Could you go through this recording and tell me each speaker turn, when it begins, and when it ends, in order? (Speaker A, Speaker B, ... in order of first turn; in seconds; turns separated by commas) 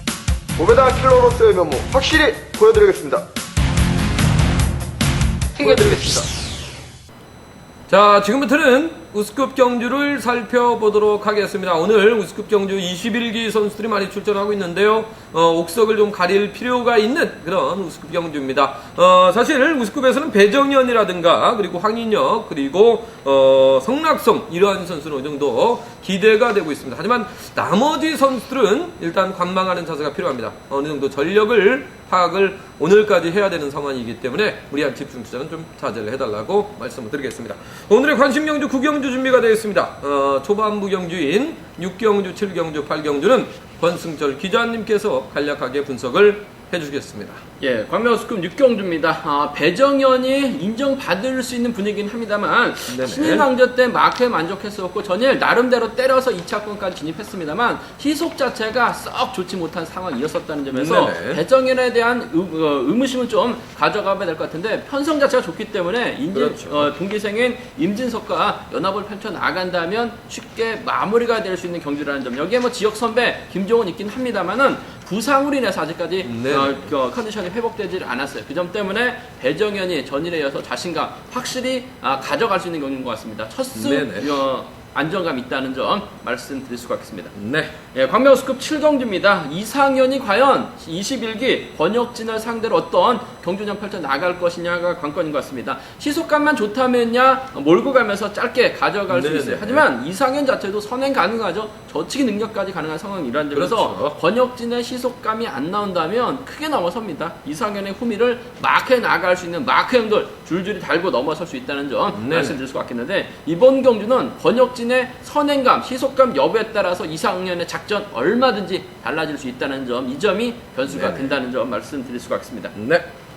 Speaker A: 0.6-3.2, Speaker B: 5.6-6.2, Speaker A: 5.6-6.2, Speaker C: 7.9-47.4, Speaker B: 47.6-87.3, Speaker C: 52.9-53.5, Speaker C: 60.7-61.4, Speaker C: 66.3-66.9, Speaker C: 76.2-76.9, Speaker C: 83.7-84.3, Speaker C: 87.3-87.7, Speaker B: 87.8-122.8, Speaker C: 99.1-99.8, Speaker C: 103.5-104.1, Speaker C: 112.1-112.6, Speaker C: 120.9-121.3, Speaker C: 122.8-123.1